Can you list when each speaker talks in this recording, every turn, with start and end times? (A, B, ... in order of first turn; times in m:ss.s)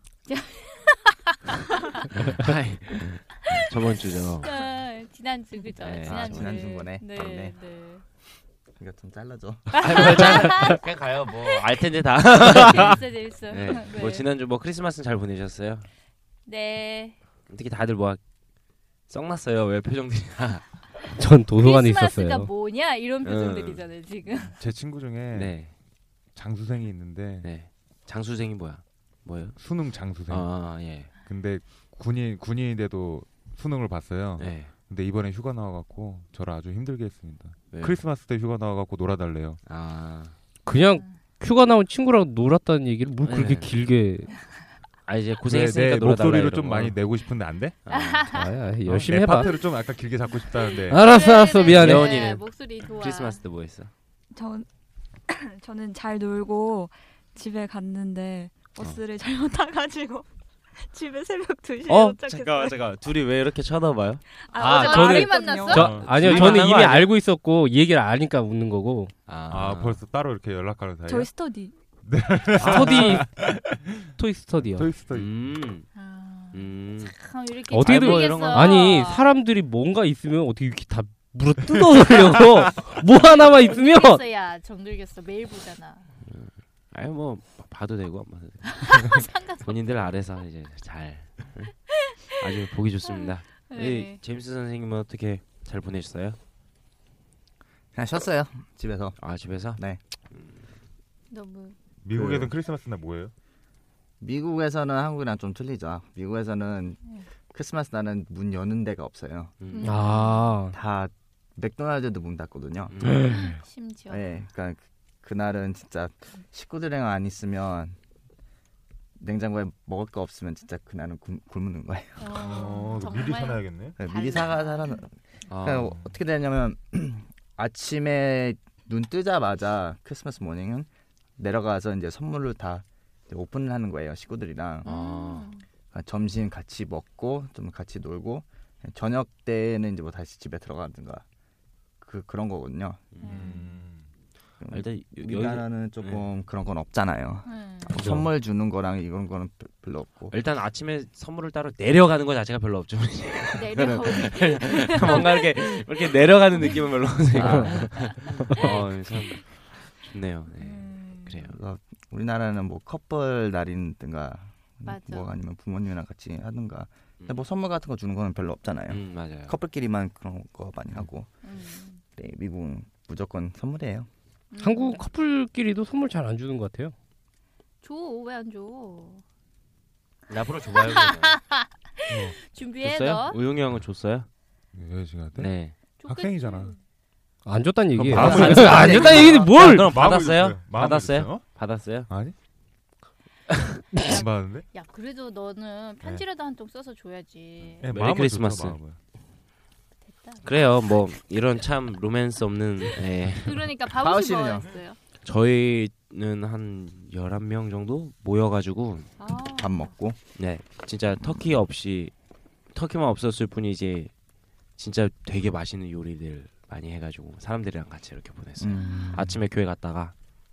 0:00.3-0:02.1 A
0:02.1-0:04.6 B
0:04.4-0:08.0 A
0:05.8-0:06.6 B
0:06.0-0:07.6 C
0:08.8-0:10.3 C
0:09.7-0:10.8 A
0:09.8-0:15.9 B
0:12.4-0:14.2 A
0:16.4-0:17.2 A
0:17.5-0:18.2 B
0:19.1-0:20.7 B
0:21.2-0:22.5 D
0:21.6-0:24.6 A
0:23.2-0:23.8 B
0:24.6-0:25.6 E
0:25.3-0:25.7 B
0:26.3-0:27.5 E
0:27.4-0:29.6 B
0:29.6-0:39.6 E
0:30.3-0:31.1 B
0:34.4-0:34.7 B
0:37.7-0:38.0 B
0:39.6-0:40.3 B
0:40.6-0:44.3 D
0:43.2-0:43.7 B
0:45.0-0:47.0 B
0:45.4-0:47.8 E
0:47.8-0:48.3 B
0:47.9-0:48.5 A
0:48.3-0:49.5 D
0:48.8-0:51.1 E
0:50.7-0:53.4 A
0:50.9-0:52.2 D
0:51.7-0:53.9 B
0:54.3-0:54.7 F
0:55.3-1:00.3 F
1:00.8-1:02.8 F
1:01.8-1:04.2 B
1:04.5-1:05.9 F
1:04.6-1:06.0 A
1:04.6-1:09.1 D
1:05.7-1:06.7 E
1:06.0-1:07.1 B
1:09.3-1:10.0 B
1:09.5-1:11.3 E
1:11.0-1:11.7 F
1:12.0-1:14.1 E
1:12.6-1:13.3 D
1:14.2-1:14.9 D
1:14.6-1:15.5 E
1:15.1-1:15.8 B
1:15.9-1:19.3 A
1:16.5-1:17.1 B
1:17.7-1:24.2 D
1:17.8-1:18.9 B
1:23.2-1:26.1 A
1:26.2-1:31.7 B
1:28.8-1:29.7 A
1:32.4-1:36.4 B
1:33.1-1:34.2 A
1:37.9-1:39.2 C
1:39.2-1:39.8 B
1:39.7-1:40.0 C
1:40.3-1:40.6 B
1:41.3-1:41.8 A
1:42.0-1:43.3 E
1:42.1-1:42.5 C
1:44.2-1:47.0 C
1:47.5-1:49.5 C
1:49.6-1:50.0 B
1:49.7-1:50.4 A
1:49.8-1:50.7 D
1:50.7-1:53.1 C
1:52.9-1:53.3 B
1:53.3-1:54.2 A
1:54.1-1:58.0 C
1:59.2-2:02.6 C
2:02.2-2:05.0 A
2:02.3-2:04.0 E
2:04.0-2:05.1 C
2:05.5-2:05.9 B
2:05.6-2:14.9 C
2:14.8-2:15.6 A
2:14.8-2:15.5 B
2:15.9-2:21.2 C
2:22.0-2:23.1 C
2:23.1-2:23.6 B
2:23.2-2:23.8 A
2:23.3-2:24.1 E
2:24.6-2:30.3 C
2:24.7-2:26.2 B
2:27.4-2:28.0 A
2:28.0-2:28.2 D
2:30.3-2:41.6 B
2:33.5-2:35.9 A
2:36.6-2:36.9 A
2:37.4-2:37.7 C
2:37.4-2:37.8 D
2:38.3-2:38.6 A
2:40.6-2:41.3 A
2:41.4-2:51.3 C
2:44.8-2:45.3 A
2:48.9-2:49.6 B
2:51.4-2:52.0 A
2:52.2-2:54.1 C
2:54.5-2:55.0 A
2:54.6-2:56.9 D
2:57.8-2:59.2 A
3:00.3-3:01.4 B
3:00.7-3:03.4 A
3:02.1-3:02.3 E
3:02.8-3:04.3 B
3:04.7-3:06.7 E
3:05.3-3:05.7 B
3:06.0-3:06.8 A
3:07.4-3:09.9 D
3:08.0-3:12.3 E
3:08.1-3:12.1 B
3:08.1-3:09.5 C
3:14.0-3:14.6 E
3:14.0-3:17.9 A
3:17.8-3:19.0 E
3:17.8-3:18.8 B
3:20.1-3:20.5 A
3:20.4-3:23.6 B
3:23.4-3:25.0 A
3:24.0-3:24.7 C
3:25.2-3:29.1 B
3:29.2-3:29.6 A
3:29.6-3:30.2 C
3:30.4-3:32.1 B
3:32.7-3:34.1 B
3:34.8-3:40.1 B
3:38.6-3:39.4 C
3:38.8-3:39.2 A